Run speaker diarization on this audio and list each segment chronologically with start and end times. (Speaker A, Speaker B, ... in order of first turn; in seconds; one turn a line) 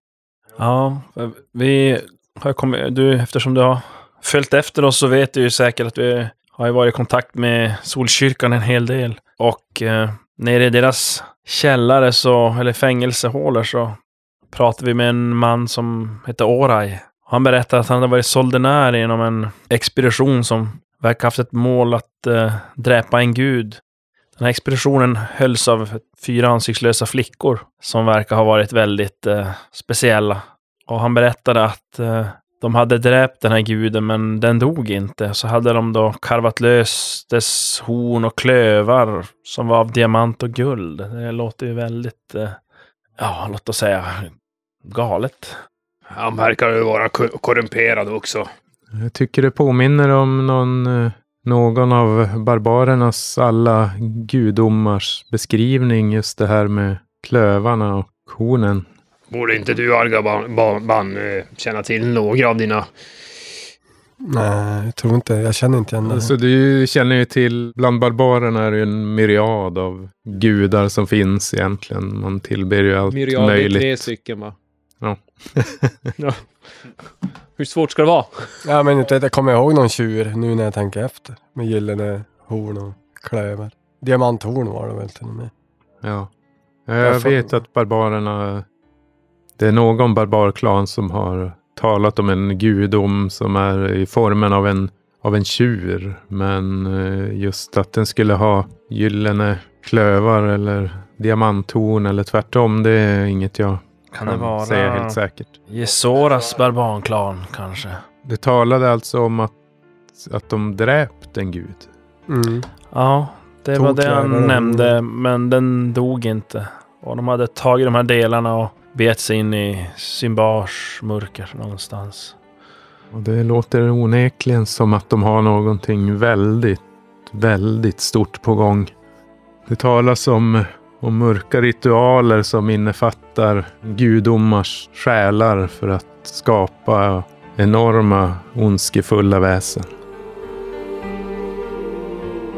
Speaker A: 0.6-14.0
Speaker A: 14.5-23.8
Speaker A: 24.4-42.6
Speaker A: 43.2-44.3
Speaker A: 44.8-45.5
Speaker B: 46.1-48.5
Speaker C: 48.9-58.9
Speaker B: 59.3-62.9
Speaker D: 64.2-66.3
Speaker C: 66.1-74.1
Speaker E: 73.1-74.5
Speaker C: 75.0-76.0
Speaker E: 76.2-76.5
Speaker E: 77.6-78.5
Speaker D: 78.6-85.5
Speaker C: 86.0-86.3
Speaker C: 86.9-88.6
Speaker D: 87.0-87.5
Speaker C: 89.6-105.5
Speaker A: 104.1-105.2
Speaker A: 105.7-108.0
Speaker C: 108.2-109.5
Speaker C: 110.2-111.9
Speaker D: 112.3-112.7
Speaker A: 112.9-122.3
Speaker D: 113.7-115.0
Speaker C: 123.1-128.9
Speaker C: 129.7-139.9